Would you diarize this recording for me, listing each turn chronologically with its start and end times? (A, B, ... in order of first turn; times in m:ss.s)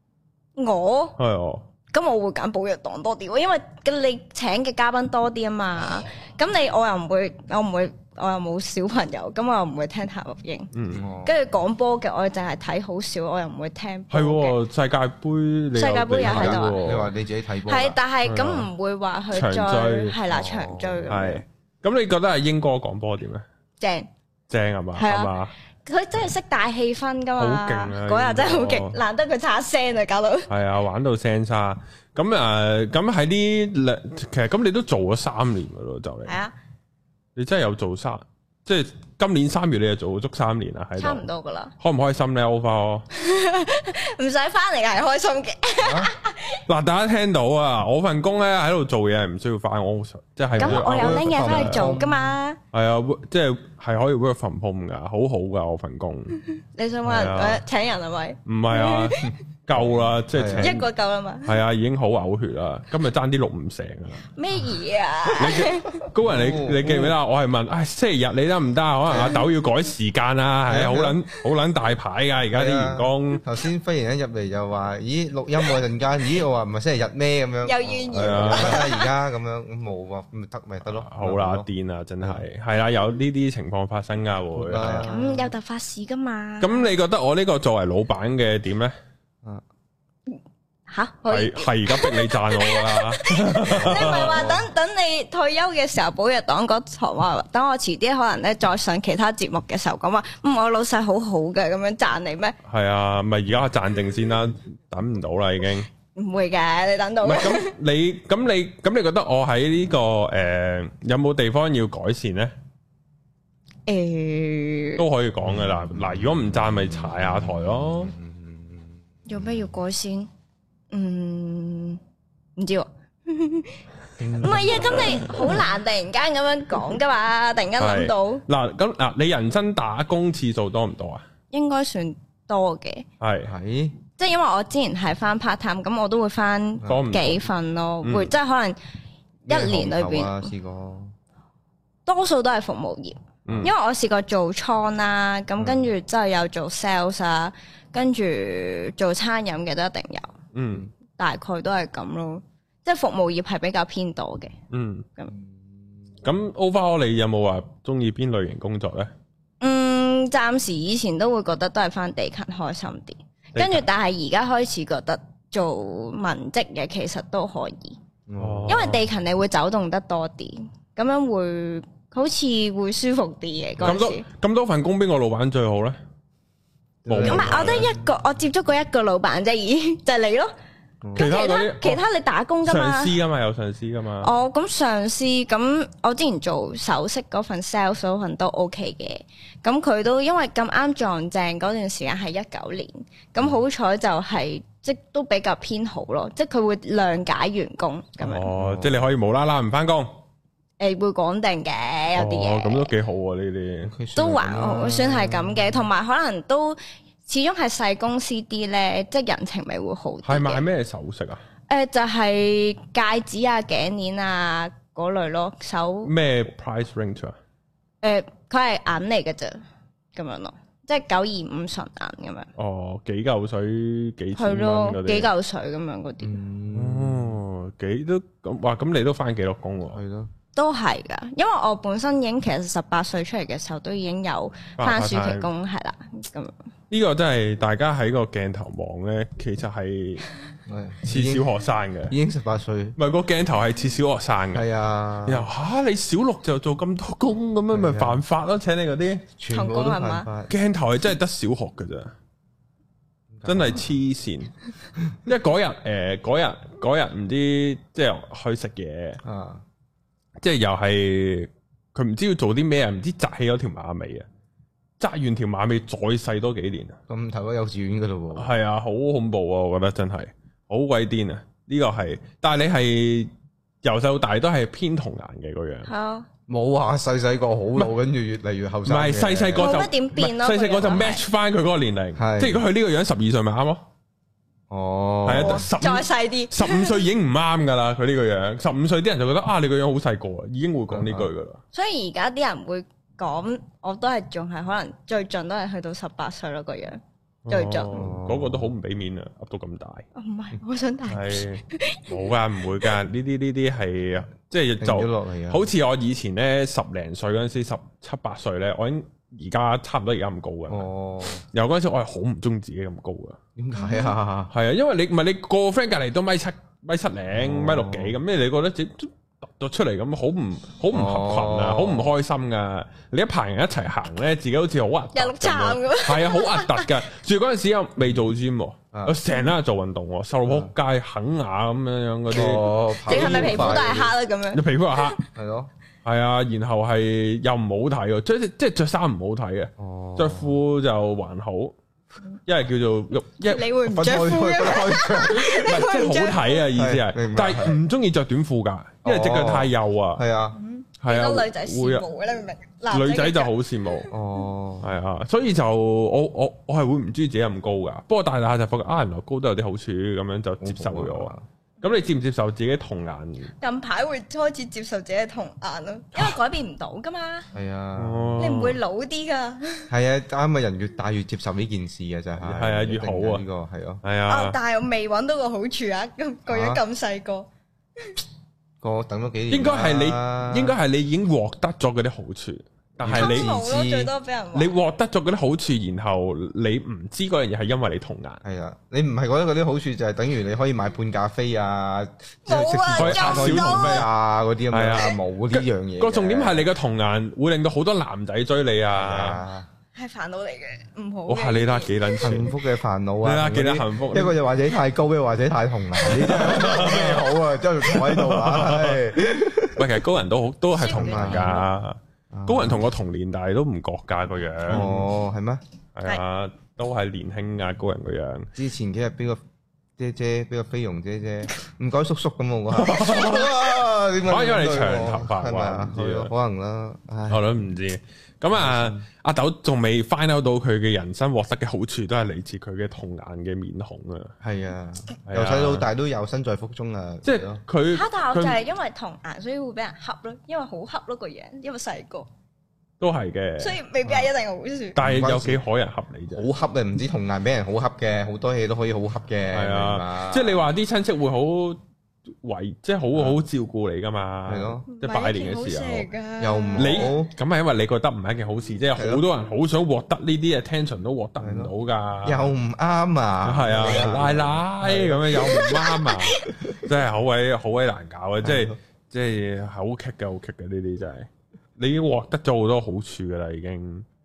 0:00.6-0:01.2 A
0:01.2-0:01.6 B
0:01.9-0:10.7 A
0:10.7-0:11.0 B
0:10.9-0:11.4 C
0:11.2-0:14.6 A
0:14.1-0:17.1 B
0:15.7-0:17.1 A
0:16.2-0:18.0 C
0:17.6-0:21.4 A
0:18.2-0:18.7 B
0:19.3-0:20.1 B
0:20.3-0:21.2 C
0:21.1-0:23.4 B
0:23.8-0:24.1 A
0:24.5-0:25.5 B
0:25.0-0:25.3 A
0:25.8-0:30.5 A
0:27.4-0:29.0 B
0:30.5-0:36.4 B
0:36.3-0:36.5 A
0:37.4-0:41.2 B
0:41.0-0:41.7 A
0:41.8-0:43.0 B
0:43.1-0:46.6 A
0:45.8-0:46.1 C
0:46.7-0:51.9 B
0:50.6-0:52.3 C
0:50.6-0:52.6 A
0:52.7-0:56.4 B
0:56.5-0:59.3 A
0:57.0-0:57.6 B
0:58.4-1:00.8 B
0:59.2-1:00.8 C
1:00.6-1:01.6 A
1:01.4-1:04.3 B
1:04.3-1:06.0 A
1:05.4-1:13.4 B
1:06.1-1:07.2 C
1:09.1-1:09.4 C
1:10.7-1:11.2 C
1:12.5-1:21.7 C
1:17.6-1:19.1 A
1:18.1-1:18.9 B
1:20.8-1:25.1 B
1:24.6-1:25.5 C
1:25.0-1:26.8 A
1:26.6-1:28.9 B
1:30.9-1:42.6 A
1:31.3-1:34.5 B
1:33.6-1:34.6 C
1:42.6-1:45.9 B
1:46.1-1:47.7 A
1:47.2-1:52.5 B
1:53.9-1:55.0 A
1:55.0-1:58.1 B
1:55.5-1:56.3 C
1:56.9-1:59.7 C
1:59.3-2:00.3 A
2:00.9-2:02.0 A
2:02.6-2:03.8 A
2:04.2-2:05.6 C
2:04.4-2:08.4 A
2:07.8-2:11.2 B
2:11.5-2:13.0 A
2:13.2-2:13.5 B
2:13.5-2:14.0 C
2:14.2-2:18.8 A
2:16.8-2:17.4 B
2:18.0-2:18.3 B
2:19.4-2:20.5 A
2:19.5-2:21.1 C
2:22.1-2:30.3 A
2:23.5-2:23.7 C
2:25.6-2:25.8 C
2:30.5-2:30.9 B
2:31.2-2:34.5 A
2:34.7-2:35.1 B
2:35.3-2:35.7 C
2:36.2-2:39.1 B
2:39.6-2:48.0 A
2:43.5-2:43.8 B
2:48.3-2:48.8 C
2:48.4-2:49.0 B
2:48.7-2:54.2 A
2:53.8-2:56.0 B
2:57.0-2:57.9 C
2:57.1-2:57.9 B
2:57.2-3:00.5 A
3:01.0-3:01.3 C
3:01.1-3:02.0 B
3:01.1-3:03.2 A
3:02.6-3:04.3 B
3:04.2-3:18.5 A
3:18.2-3:20.2 B
3:18.5-3:19.1 C
3:20.8-3:22.9 A
3:22.1-3:23.9 B
3:23.8-3:25.8 C
3:24.2-3:30.6 A
3:30.2-3:31.4 B
3:31.7-3:36.1 A
3:36.0-3:37.4 B
3:38.0-3:39.6 A
3:40.1-3:42.5 A
3:42.6-3:45.3 B
3:44.4-3:46.4 A
3:46.2-3:47.4 C
3:46.7-3:50.0 B
3:49.9-3:50.3 C
3:50.5-3:56.5 A
3:54.8-3:55.5 B
3:56.9-4:00.2 B
4:00.7-4:01.5 C
4:01.0-4:02.1 B
4:02.1-4:03.0 C
4:03.0-4:04.6 B
4:04.5-4:05.5 C
4:05.2-4:09.2 B
4:07.7-4:08.2 C
4:09.4-4:10.5 C
4:09.5-4:10.3 A
4:10.5-4:12.1 B
4:13.3-4:13.9 C
4:13.4-4:14.5 B
4:15.2-4:19.2 B
4:19.2-4:19.6 C
4:20.4-4:24.2 B
4:25.0-4:27.0 B
4:27.1-4:28.5 C
4:28.3-4:33.3 B
4:33.8-4:35.9 B
4:35.9-4:36.3 A
4:36.5-4:39.7 C
4:38.8-4:43.8 B
4:39.6-4:41.2 A
4:42.2-4:42.6 C
4:44.7-4:45.6 C
4:45.2-4:51.6 B
4:45.4-4:47.1 A
4:50.9-4:51.3 C
4:51.7-4:58.1 A
4:57.4-5:00.0 B
4:57.9-4:58.7 C
5:00.1-5:02.9 A
5:01.1-5:10.9 B
5:04.8-5:05.7 C
5:10.7-5:11.4 C
5:11.4-5:13.4 B
5:13.6-5:14.5 C
5:13.7-5:14.2 A
5:14.5-5:34.0 B
5:17.3-5:18.2 C
5:20.9-5:22.1 C
5:25.1-5:26.9 A
5:28.9-5:29.2 C
5:30.4-5:30.7 C
5:32.3-5:34.1 C
5:33.0-5:35.2 A
5:34.5-5:35.2 B
5:35.3-5:35.7 C
5:36.0-5:41.8 B
5:39.8-5:40.5 C
5:42.4-5:43.8 B
5:43.4-5:46.6 A
5:43.8-5:45.8 C
5:45.5-5:50.2 B
5:46.8-5:47.8 C
5:49.0-5:50.6 C
5:50.5-5:53.5 A
5:51.0-5:52.1 B
5:52.9-5:54.1 B
5:54.1-5:54.9 C
5:54.8-6:03.5 B
6:00.6-6:01.4 C
6:03.6-6:07.5 A
6:07.5-6:08.4 C
6:08.0-6:08.8 B
6:08.4-6:09.9 A
6:09.9-6:14.0 C
6:12.4-6:13.4 B
6:14.0-6:14.6 B
6:14.3-6:17.5 A
6:16.5-6:16.8 C
6:18.8-6:20.8 C
6:19.5-6:23.5 B
6:23.0-6:24.1 C
6:23.1-6:24.7 A
6:24.5-6:28.4 B
6:28.4-6:36.6 C
6:32.5-6:34.1 A
6:32.9-6:34.1 B
6:34.7-6:39.4 B
6:38.9-6:39.7 C
6:40.0-6:42.0 A
6:41.3-6:42.6 B
6:42.2-6:50.0 C
6:43.2-6:44.4 B
6:46.0-6:49.1 B
6:49.7-6:55.1 B
6:50.7-6:51.6 A
6:50.9-6:51.6 C
6:52.3-6:52.8 C
6:54.7-6:55.6 C
6:55.9-6:58.5 B
6:58.6-6:59.4 C
7:00.0-7:07.4 C
7:02.8-7:03.7 B
7:04.2-7:06.3 B
7:07.3-7:14.3 B
7:08.5-7:09.0 C
7:14.4-7:17.6 C
7:15.2-7:15.9 B
7:17.2-7:18.6 B
7:17.9-7:22.3 A
7:23.0-7:23.8 B
7:23.6-7:25.0 A
7:24.9-7:26.4 B
7:25.0-7:25.6 C
7:26.3-7:30.6 C
7:29.5-7:31.8 B
7:32.4-7:36.1 B
7:34.5-7:34.8 C
7:34.9-7:37.1 A
7:36.4-7:37.3 C
7:36.8-7:42.5 B
7:38.9-7:39.2 C
7:41.4-7:41.7 C
7:42.2-7:45.8 C
7:43.4-7:54.0 B
7:45.4-7:46.5 A
7:48.4-7:48.8 C